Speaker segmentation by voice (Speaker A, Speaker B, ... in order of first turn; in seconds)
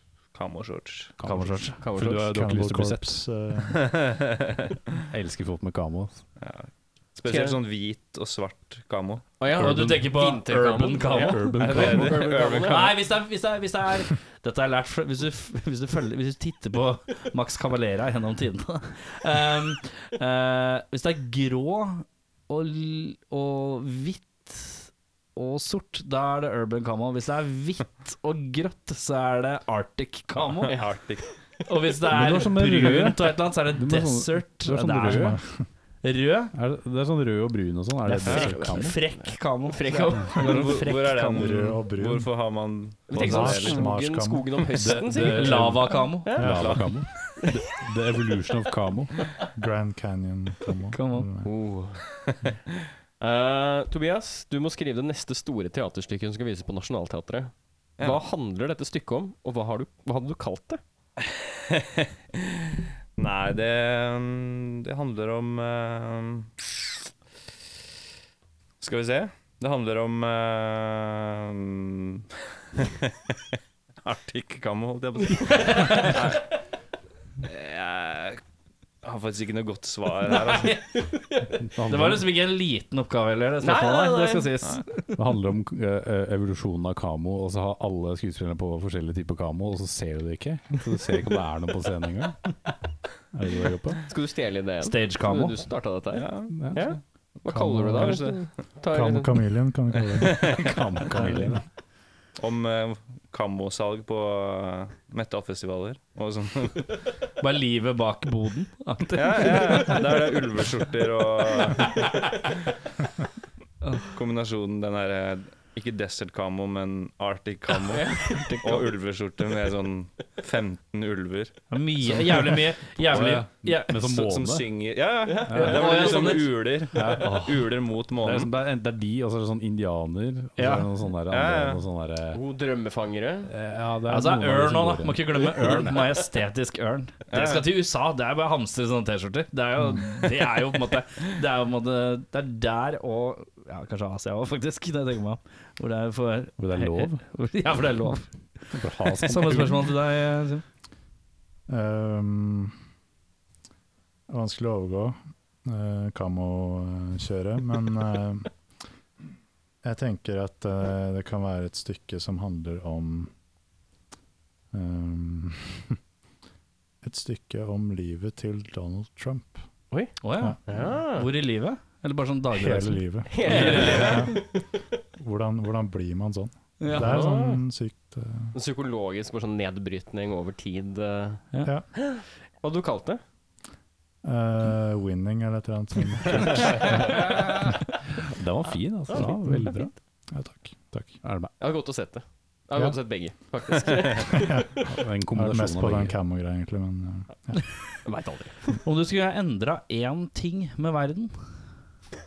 Speaker A: 0.3-1.1, 3.7-5.1, 6.4-9.3, 11.6-12.8, 30.4-31.3, 40.3-43.9, 46.5-46.8, 61.2-62.6, 63.2-66.5, 68.8-76.4, 77.4-78.4, 79.0-80.8, 96.1-97.0, 97.9-98.5, 100.1-100.5, 102.4-107.0, 109.1-112.1, 114.1-121.6, 124.0-128.5, 131.3-131.8, 137.3-137.7
Speaker B: 1.2-3.2, 5.1-6.2, 9.6-10.2, 11.1-12.3, 32.1-35.4, 36.5-39.0, 44.7-49.2, 81.7-82.3, 85.1-92.5, 93.3-94.0, 100.4-101.6, 122.1-124.7, 125.5-125.8, 126.9-132.4, 133.5-135.9, 146.6-147.2, 148.7-149.9, 173.5-173.9, 188.2-189.9, 191.2-191.5, 194.9-196.2
Speaker C: 1.2-1.8, 9.6-11.5, 12.6-30.8, 31.6-35.4, 36.0-36.5, 38.2-41.5, 45.2-46.6, 50.9-51.3, 75.6-76.1, 80.5-81.1, 81.8-84.7, 94.8-95.6, 107.4-110.4, 111.8-112.1, 113.8-114.1, 121.7-124.0, 125.5-126.8, 130.6-130.9, 134.1-150.6, 170.2-174.3, 176.8-177.3, 198.8-201.3
Speaker D: 1.8-2.2, 7.3-7.6, 9.4-12.9, 30.7-31.0, 38.2-40.9, 43.1-46.8, 51.4-52.0, 53.2-60.8, 75.4-76.1, 81.0-81.4, 83.6-84.8, 94.1-99.3, 117.9-118.6, 125.3-126.4, 132.3-133.5, 170.7-171.3, 173.3-174.9, 176.9-177.6, 178.5-183.2, 191.6-194.7, 198.1-198.8
Speaker E: 2.1-3.9, 35.1-35.6, 41.1-42.3, 43.1-44.7, 46.4-46.9, 49.5-51.5, 97.5-98.2, 98.9-101.6, 151.7-152.7, 154.3-158.5, 159.8-163.3, 164.7-166.0, 167.0-169.6, 172.5-174.4, 175.2-178.5, 184.2-187.8, 190.3-191.2, 194.4-197.7